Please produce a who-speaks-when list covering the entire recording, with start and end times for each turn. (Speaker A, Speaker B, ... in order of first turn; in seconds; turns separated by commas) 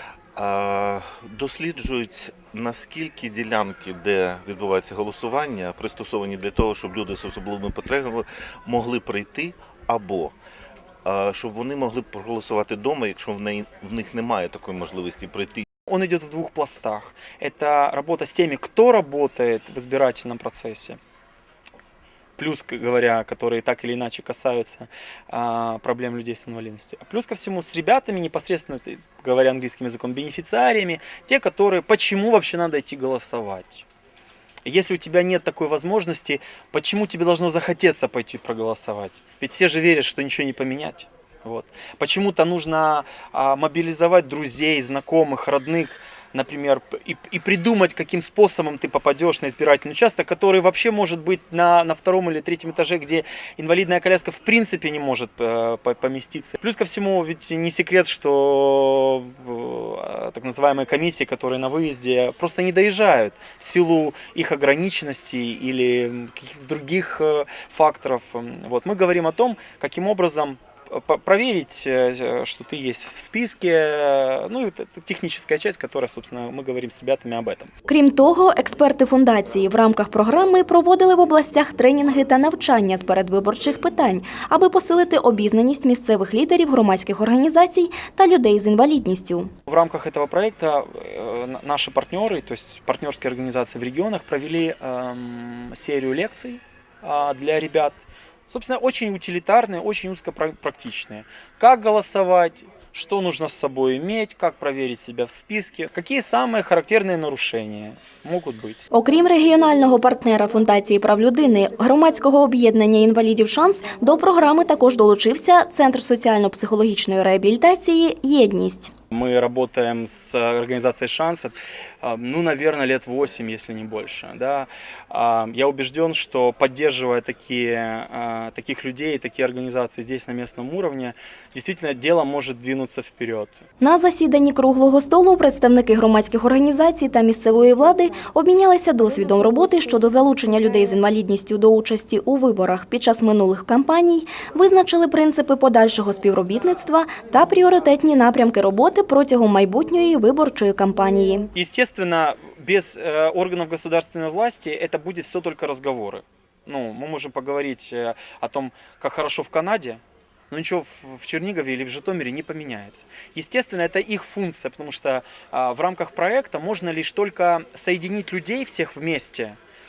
Speaker A: 0.3-10.3, Speaker A: 11.0-15.6, Speaker B: 15.9-21.0, Speaker B: 22.4-33.8, Speaker B: 34.6-77.7, Speaker C: 77.9-89.5, Speaker B: 89.7-108.9, Speaker C: 108.9-118.9, Speaker B: 119.1-133.6, Speaker C: 133.8-151.5, Speaker B: 151.5-169.6